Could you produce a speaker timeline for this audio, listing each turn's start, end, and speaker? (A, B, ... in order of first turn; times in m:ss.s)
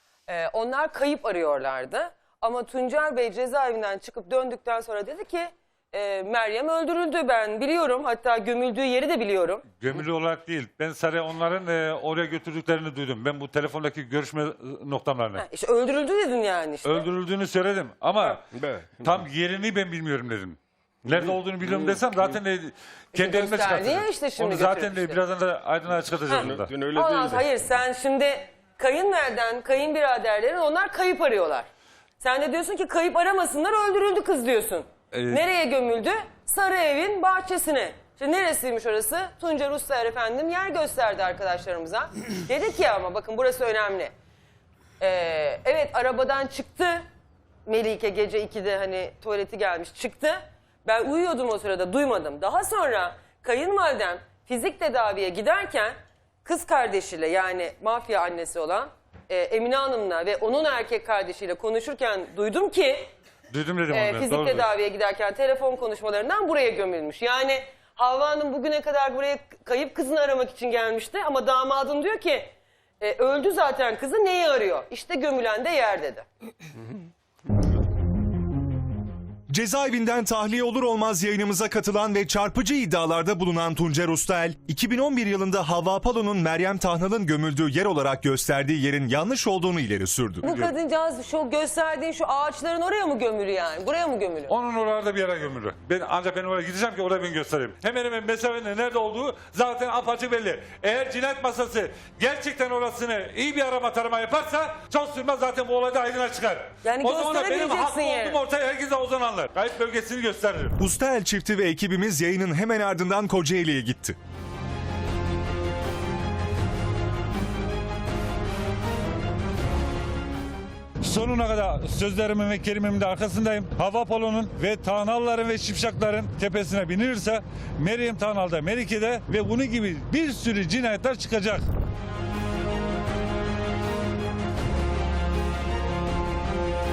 0:00.3-0:09.6 A
0:09.8-0:15.4 B
0:15.3-0:17.1 A
0:16.8-0:18.4 B
0:18.5-0:19.3 C
0:19.0-0:26.7 B
0:21.1-0:22.3 C
0:23.1-0:25.2 A
0:26.3-0:31.6 A
0:26.3-0:27.4 C
0:32.2-0:44.1 A
0:35.1-0:35.4 B
0:45.0-0:47.0 A
0:47.6-1:03.1 A
1:03.5-1:04.7 B
1:03.9-1:16.2 A
1:19.5-1:30.4 D
1:30.4-1:30.7 B
1:30.4-1:34.5 A
1:34.5-1:50.8 B
1:46.8-1:48.4 A
1:50.8-1:54.2 D
2:01.0-2:11.6 B